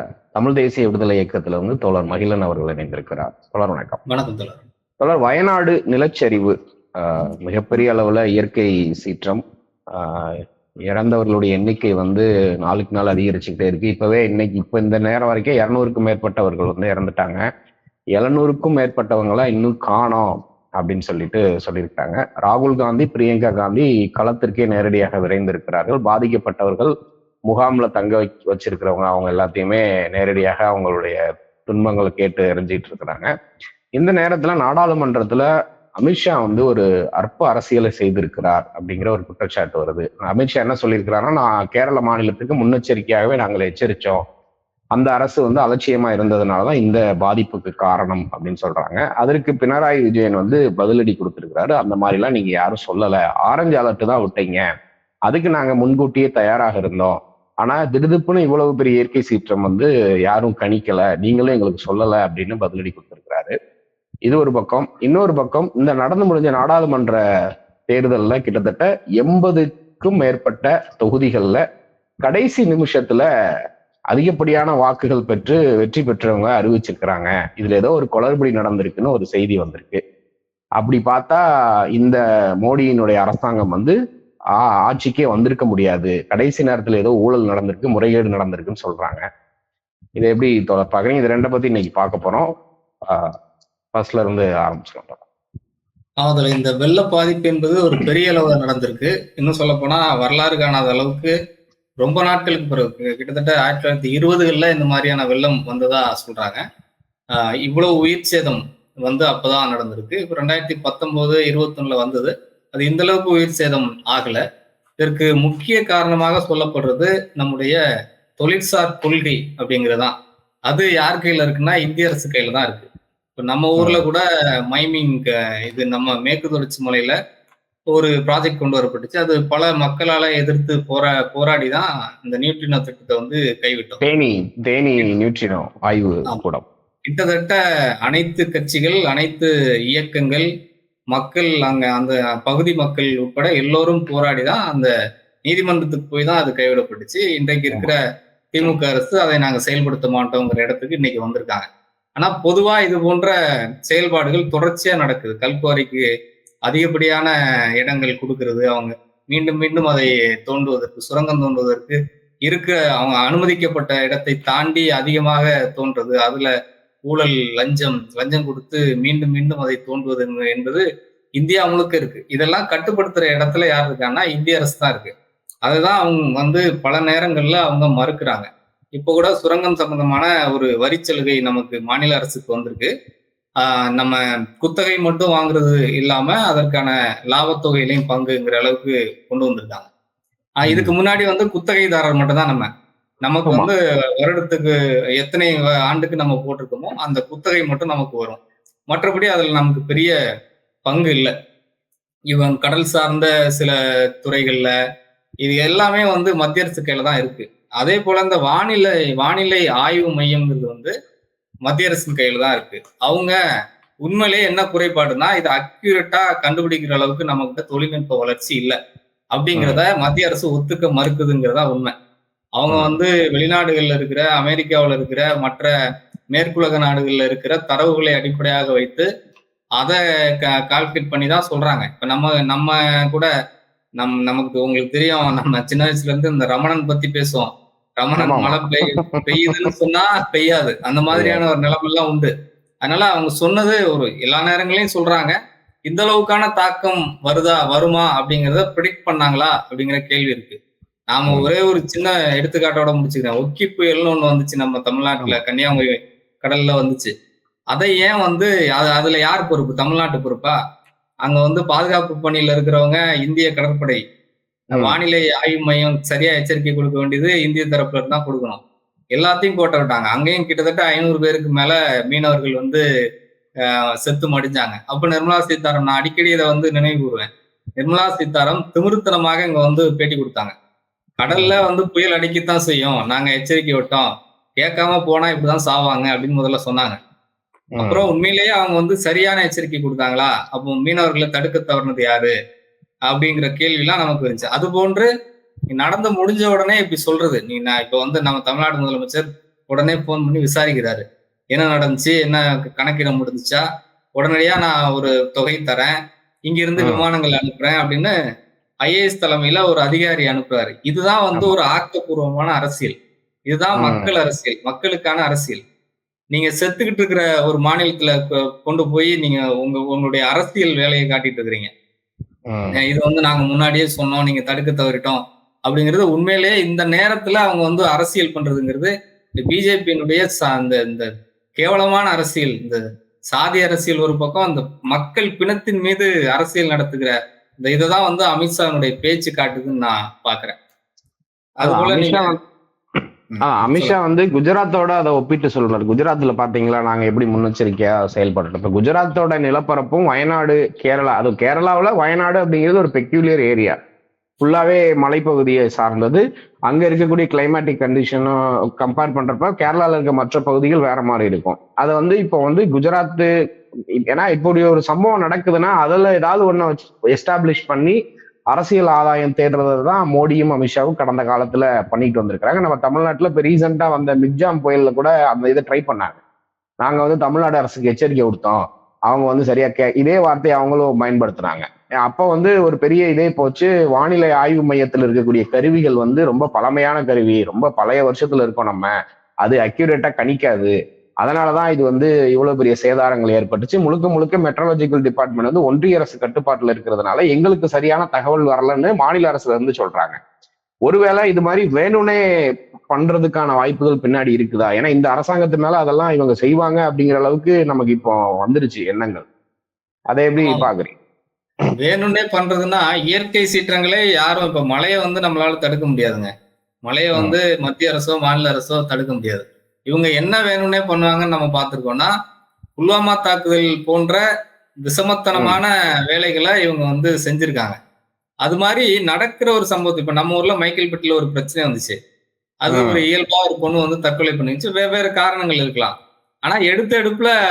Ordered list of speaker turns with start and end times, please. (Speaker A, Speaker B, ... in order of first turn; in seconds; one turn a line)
Speaker A: 0.3-4.0
Speaker B: 4.1-4.6
Speaker A: 5.0-9.4
Speaker A: 9.9-10.3
Speaker A: 10.9-17.4
Speaker A: 18.2-26.9
Speaker A: 27.5-31.2
Speaker A: 31.7-33.3
Speaker A: 34.0-35.5
Speaker A: 36.0-44.2
Speaker A: 45.0-54.6
Speaker A: 55.3-63.5
Speaker A: 64.3-67.2
Speaker A: 67.9-71.6
Speaker A: 72.2-73.3
Speaker A: 74.1-80.0
Speaker A: 80.8-81.4
Speaker A: 82.0-84.0
Speaker A: 84.6-89.2
Speaker A: 90.2-92.5
Speaker A: 93.9-95.2
Speaker B: 96.2-101.3
Speaker B: 102.0-106.6
Speaker B: 107.7-114.4
Speaker B: 115.0-117.8
Speaker B: 118.4-120.1
Speaker B: 120.7-127.2
Speaker A: 123.8-124.0
Speaker B: 127.9-134.0
Speaker A: 134.0-136.6
Speaker B: 137.1-140.5
Speaker B: 141.1-144.9
Speaker B: 145.4-148.0
Speaker B: 148.5-153.3
Speaker B: 153.9-156.0
Speaker B: 156.7-166.5
Speaker B: 167.0-170.8
Speaker B: 171.4-175.1
Speaker B: 175.7-182.9
Speaker B: 183.6-189.9
Speaker B: 190.6-192.7
Speaker A: 190.7-190.9
Speaker B: 193.2-200.1
Speaker B: 200.8-201.3
Speaker B: 202.3-204.7
Speaker B: 205.4-210.9
Speaker B: 211.7-213.4
Speaker B: 214.0-218.8
Speaker B: 219.3-221.9
Speaker B: 222.6-225.7
Speaker A: 222.7-223.0
Speaker B: 226.3-229.1
Speaker B: 229.8-233.3
Speaker B: 234.0-242.3
Speaker A: 238.2-239.6
Speaker A: 241.1-241.4
Speaker B: 242.8-245.3
Speaker B: 245.9-250.6
Speaker B: 251.1-257.1
Speaker B: 257.7-260.6
Speaker B: 261.3-264.0
Speaker B: 264.7-268.6
Speaker B: 269.1-272.8
Speaker B: 274.0-277.3
Speaker B: 277.8-280.5
Speaker B: 281.2-284.1
Speaker A: 281.3-281.6
Speaker B: 284.6-287.0
Speaker A: 287.8-288.1
Speaker B: 287.8-292.3
Speaker B: 293.1-295.1
Speaker B: 295.7-303.6
Speaker B: 304.2-305.9
Speaker B: 306.5-308.1
Speaker A: 306.8-307.1
Speaker B: 308.9-312.9
Speaker B: 313.5-315.6
Speaker A: 313.8-314.1
Speaker B: 316.3-321.7
Speaker A: 322.5-322.8
Speaker B: 322.8-340.6
Speaker B: 341.6-342.4
Speaker A: 341.6-342.4
Speaker B: 343.3-343.9
Speaker A: 343.4-353.8
Speaker A: 354.4-363.3
Speaker A: 364.1-368.0
Speaker A: 368.5-376.2
Speaker A: 376.8-388.9
Speaker A: 389.4-400.2
Speaker A: 400.9-402.2
Speaker A: 402.9-409.2
Speaker A: 410.1-410.9
Speaker B: 410.4-410.7
Speaker B: 411.8-416.3
Speaker B: 416.9-422.1
Speaker B: 422.8-424.2
Speaker B: 424.8-427.8
Speaker B: 428.4-432.0
Speaker B: 432.6-437.3
Speaker A: 432.7-433.1